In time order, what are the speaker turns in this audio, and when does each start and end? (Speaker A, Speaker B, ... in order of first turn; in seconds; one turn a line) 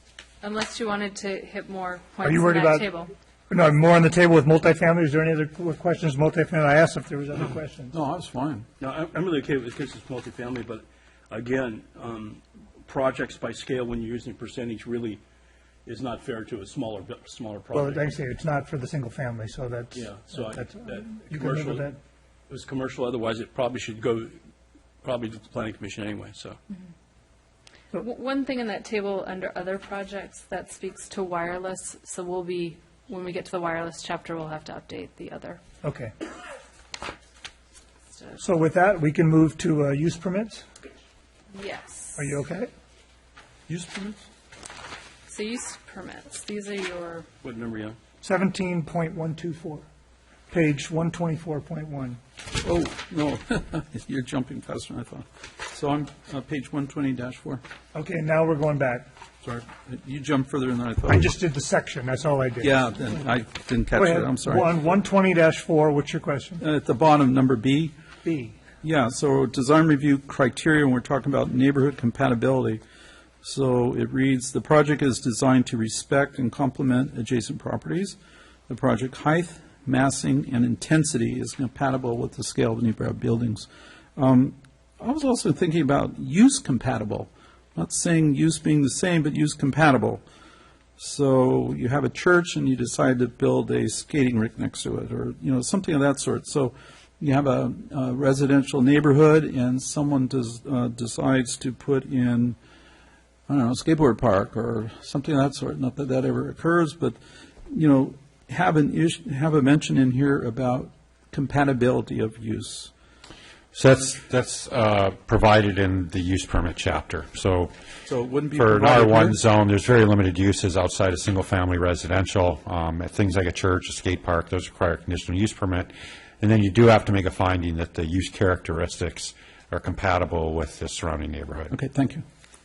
Speaker A: 0.4-3.1
Speaker B: 2.2-2.9
Speaker B: 3.5-8.0
Speaker C: 7.9-8.7
Speaker D: 8.8-10.8
Speaker D: 11.3-15.2
Speaker D: 15.9-18.0
Speaker B: 17.7-22.0
Speaker D: 20.0-21.8
Speaker D: 22.5-24.3
Speaker D: 25.0-26.6
Speaker A: 28.0-35.6
Speaker B: 35.8-36.1
Speaker B: 38.4-40.7
Speaker A: 41.5-42.4
Speaker B: 42.2-42.7
Speaker D: 43.7-44.2
Speaker A: 45.3-47.3
Speaker B: 48.2-49.9
Speaker B: 50.5-52.2
Speaker C: 52.5-57.6
Speaker B: 57.9-59.1
Speaker C: 59.4-61.3
Speaker B: 61.1-63.0
Speaker C: 62.6-64.7
Speaker B: 63.9-66.7
Speaker C: 66.6-67.9
Speaker B: 68.2-68.6
Speaker C: 68.8-72.8
Speaker C: 73.4-78.2
Speaker C: 78.7-90.2
Speaker C: 91.0-102.6
Speaker C: 103.5-107.2
Speaker C: 107.7-112.9
Speaker E: 113.7-117.7
Speaker C: 118.1-119.4
Speaker E: 118.5-131.8
Speaker C: 131.7-132.2